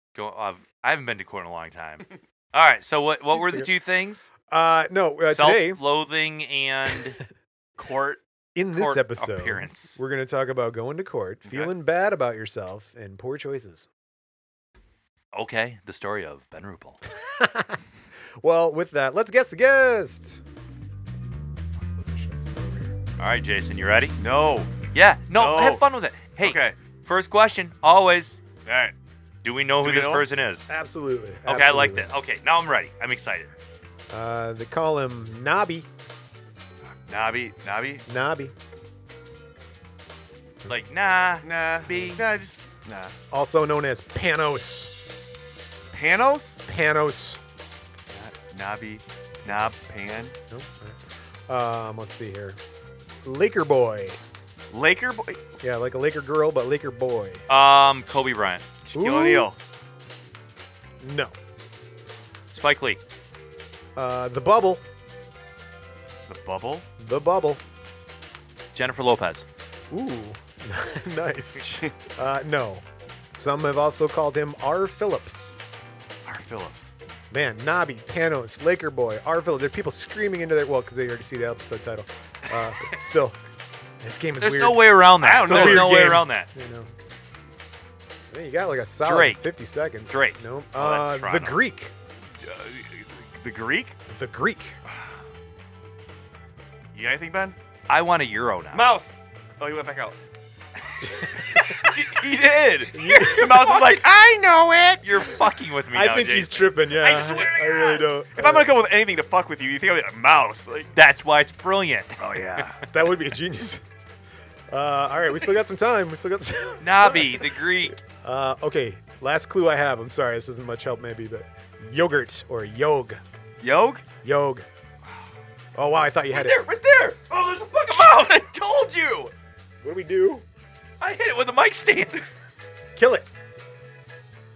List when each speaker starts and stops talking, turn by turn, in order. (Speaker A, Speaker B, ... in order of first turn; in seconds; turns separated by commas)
Speaker A: 0.2-4.3, Speaker B: 3.3-3.7, Speaker B: 4.5-5.8, Speaker A: 5.3-7.2, Speaker C: 7.8-8.2, Speaker B: 8.5-13.9, Speaker A: 8.7-10.0, Speaker C: 11.4-11.7, Speaker A: 15.3-17.0, Speaker B: 17.2-17.8, Speaker B: 18.4-20.4, Speaker B: 21.8-22.9, Speaker A: 23.2-24.2, Speaker C: 24.2-24.7, Speaker A: 24.9-28.4, Speaker C: 25.3-25.8, Speaker C: 26.4-26.8, Speaker C: 28.6-28.9, Speaker A: 29.4-30.7, Speaker C: 29.8-30.2, Speaker B: 30.7-32.1, Speaker A: 31.4-33.5, Speaker B: 34.1-35.9, Speaker C: 36.9-38.0, Speaker B: 38.1-38.5, Speaker A: 40.7-42.2, Speaker C: 41.4-43.1, Speaker B: 43.3-44.9, Speaker C: 45.9-46.6, Speaker B: 46.7-47.4, Speaker C: 48.1-50.3, Speaker B: 50.5-52.6, Speaker B: 53.2-54.2, Speaker C: 54.7-55.4, Speaker B: 55.6-57.4, Speaker A: 57.5-58.6, Speaker C: 58.8-59.6, Speaker B: 58.9-59.5, Speaker B: 61.0-61.3, Speaker A: 62.5-63.0, Speaker B: 64.0-64.8, Speaker C: 66.3-66.9, Speaker B: 67.0-67.6, Speaker A: 68.8-69.5, Speaker B: 69.9-75.5, Speaker C: 71.6-71.9, Speaker C: 76.2-76.9, Speaker B: 77.3-83.4, Speaker B: 84.0-86.9, Speaker A: 84.4-86.5, Speaker C: 85.2-86.1, Speaker B: 88.3-91.9, Speaker A: 89.0-89.4, Speaker A: 90.1-91.6, Speaker C: 92.4-94.0, Speaker B: 94.1-94.8, Speaker C: 94.8-95.2, Speaker C: 96.9-97.6, Speaker A: 97.9-98.9, Speaker C: 98.7-100.2, Speaker B: 101.0-101.7, Speaker A: 101.6-101.9, Speaker C: 101.6-105.3, Speaker B: 102.9-103.7, Speaker A: 103.1-103.9, Speaker A: 105.0-106.7, Speaker B: 105.9-108.7, Speaker C: 106.9-110.9, Speaker A: 110.9-112.8, Speaker C: 112.2-112.8, Speaker B: 112.9-113.8, Speaker B: 114.7-123.2, Speaker A: 116.8-118.0, Speaker C: 123.6-124.1, Speaker B: 124.2-124.7, Speaker B: 125.8-126.6, Speaker C: 126.3-129.3, Speaker A: 127.2-128.4, Speaker B: 129.8-130.4, Speaker A: 131.0-132.2, Speaker B: 132.9-133.3